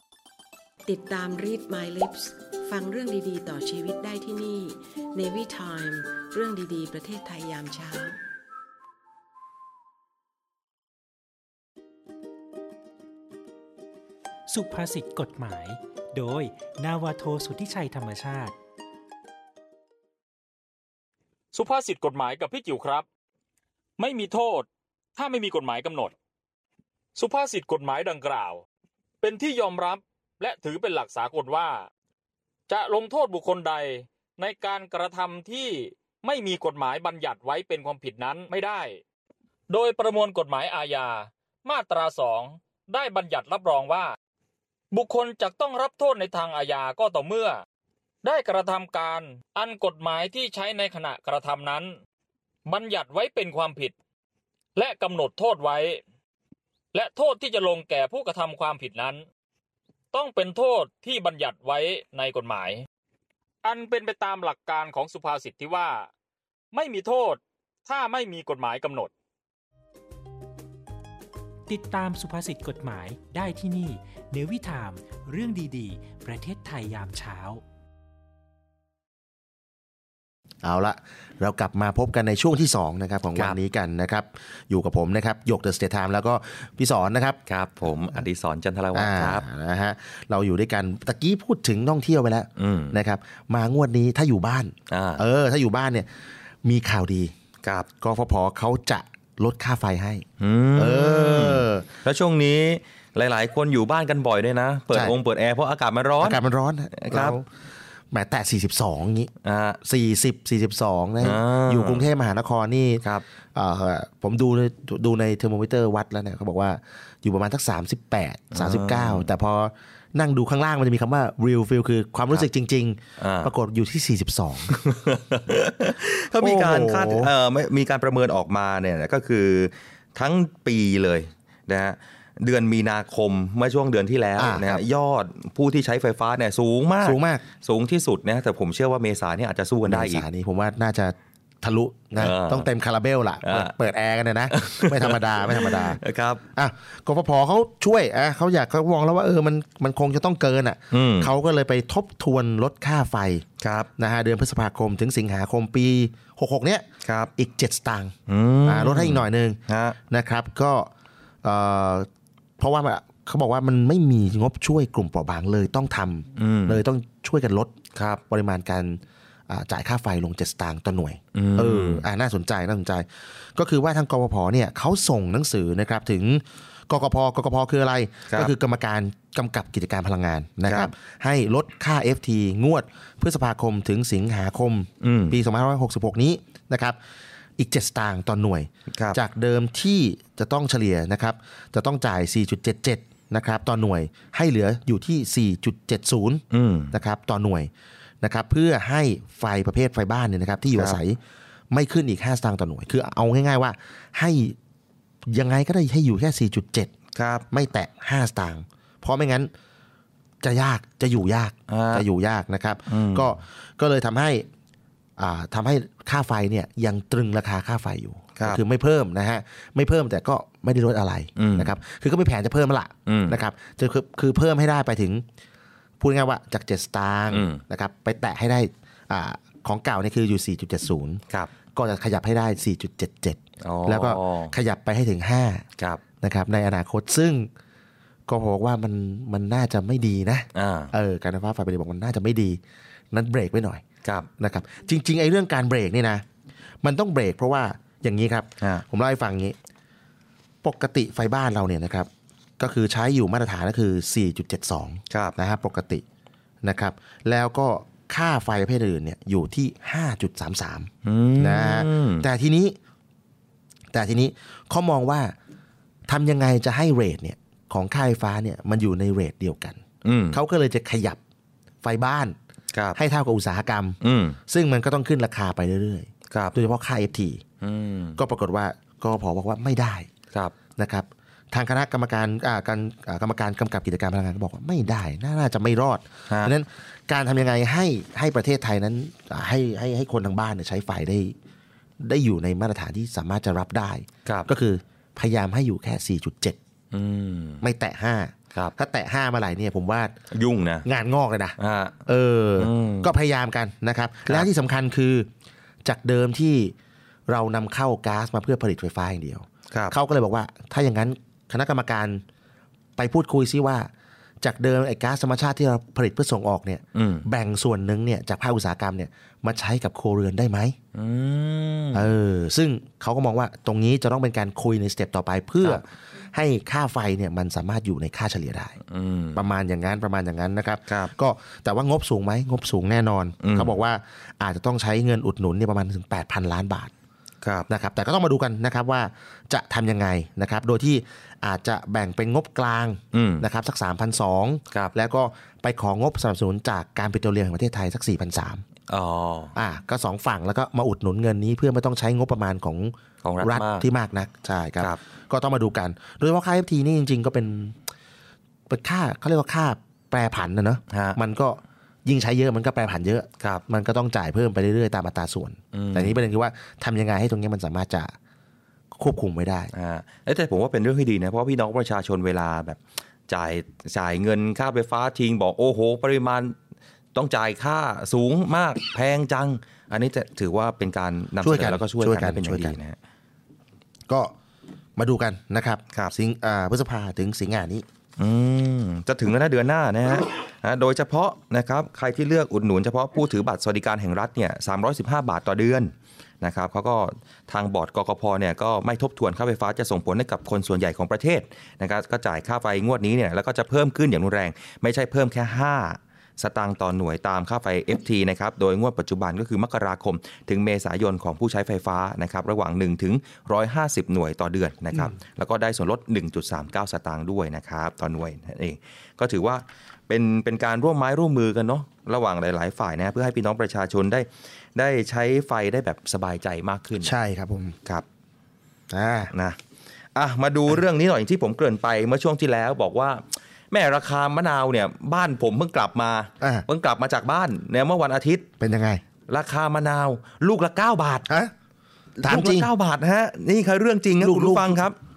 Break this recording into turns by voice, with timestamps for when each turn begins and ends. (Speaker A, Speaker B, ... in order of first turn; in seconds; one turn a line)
Speaker A: 0.8-8.2
Speaker B: 14.5-18.5
Speaker C: 21.5-23.1
Speaker C: 24.0-26.1
Speaker C: 27.1-28.6
Speaker C: 29.2-31.9
Speaker C: 32.7-39.0
Speaker C: 39.7-44.1
Speaker C: 44.9-47.6
Speaker C: 48.2-52.0
Speaker C: 52.6-53.9
Speaker C: 54.7-56.0
Speaker C: 56.9-59.2
Speaker C: 60.1-62.8
Speaker C: 63.6-66.1
Speaker C: 66.7-69.1
Speaker B: 71.7-77.6
Speaker D: 80.6-87.4
Speaker E: 87.5-89.4
Speaker D: 88.9-96.1
Speaker E: 92.6-92.9
Speaker E: 94.9-95.2
Speaker D: 96.6-97.3
Speaker D: 98.0-100.2
Speaker E: 100.4-106.4
Speaker D: 100.8-101.8
Speaker D: 106.2-107.5
Speaker E: 107.0-107.4
Speaker D: 108.1-109.3
Speaker E: 109.4-109.8
Speaker D: 109.8-113.0
Speaker E: 111.2-112.0
Speaker D: 113.5-124.8
Speaker E: 118.5-119.3
Speaker E: 123.2-123.5
Speaker E: 124.7-140.2
Speaker D: 126.4-127.3
Speaker D: 134.4-134.8
Speaker D: 137.0-137.4
Speaker D: 139.8-146.0
Speaker E: 142.2-142.7
Speaker E: 143.4-143.7
Speaker E: 144.5-146.4
Speaker D: 146.6-153.4
Speaker E: 150.9-151.3
Speaker E: 153.6-153.9
Speaker D: 154.0-156.8
Speaker E: 157.0-157.3
Speaker D: 157.4-159.6
Speaker E: 158.3-160.0
Speaker D: 160.1-160.9
Speaker D: 161.4-162.1
Speaker D: 162.6-167.7
Speaker E: 166.4-166.8
Speaker E: 167.9-168.2
Speaker D: 168.3-187.0
Speaker E: 171.3-172.0
Speaker E: 185.0-185.4
Speaker D: 187.6-197.7
Speaker E: 196.5-196.9
Speaker D: 198.2-201.2
Speaker E: 200.7-201.0
Speaker D: 201.7-204.6
Speaker D: 205.3-206.9
Speaker E: 207.1-207.4
Speaker D: 207.5-209.5
Speaker D: 210.4-214.5
Speaker E: 211.7-212.0
Speaker E: 212.9-213.3
Speaker D: 215.2-225.2
Speaker E: 221.4-221.7
Speaker E: 223.1-223.4
Speaker D: 226.0-231.2
Speaker E: 227.3-227.6
Speaker D: 231.7-235.6
Speaker E: 233.6-234.5
Speaker D: 236.2-237.5
Speaker D: 238.3-242.6
Speaker E: 240.5-240.9
Speaker D: 243.1-243.8
Speaker E: 244.0-244.3
Speaker D: 244.4-246.2
Speaker D: 246.8-249.6
Speaker D: 250.6-256.0
Speaker E: 255.1-255.3
Speaker D: 256.6-262.8
Speaker E: 261.0-262.2
Speaker D: 263.9-265.3
Speaker D: 266.1-271.2
Speaker E: 270.0-270.4
Speaker D: 271.8-272.4
Speaker E: 272.7-273.0
Speaker D: 272.9-277.4
Speaker E: 274.0-274.4
Speaker E: 276.3-276.6
Speaker E: 277.6-278.2
Speaker D: 278.2-280.1
Speaker D: 280.8-291.3
Speaker D: 292.0-296.6
Speaker E: 296.9-297.6
Speaker D: 297.6-300.1
Speaker E: 300.3-300.8
Speaker D: 300.8-305.3
Speaker E: 301.6-302.0
Speaker E: 302.6-303.1
Speaker D: 305.8-306.7
Speaker D: 307.3-312.2
Speaker D: 313.0-313.9
Speaker D: 314.4-320.8
Speaker E: 316.9-317.2
Speaker E: 320.9-322.1
Speaker D: 321.9-328.8
Speaker E: 328.9-329.4
Speaker D: 329.3-336.9
Speaker E: 330.9-331.1
Speaker E: 333.4-333.7
Speaker E: 337.4-337.7
Speaker D: 337.7-348.6
Speaker E: 343.1-343.4
Speaker E: 348.9-349.5
Speaker D: 349.5-357.8
Speaker E: 353.2-353.9
Speaker D: 358.7-368.1
Speaker E: 360.9-361.2
Speaker E: 365.7-366.2
Speaker D: 368.9-369.7
Speaker E: 369.7-376.5
Speaker E: 377.1-382.9
Speaker D: 381.4-382.8
Speaker D: 384.1-384.3
Speaker D: 385.0-387.8
Speaker E: 388.2-427.1
Speaker D: 427.0-427.8
Speaker D: 428.9-429.3
Speaker E: 429.3-429.6
Speaker E: 430.1-438.5
Speaker D: 436.4-436.6
Speaker D: 438.6-439.0
Speaker E: 439.3-441.3
Speaker D: 441.3-441.5
Speaker D: 442.2-442.7
Speaker E: 442.2-444.9
Speaker D: 444.2-444.8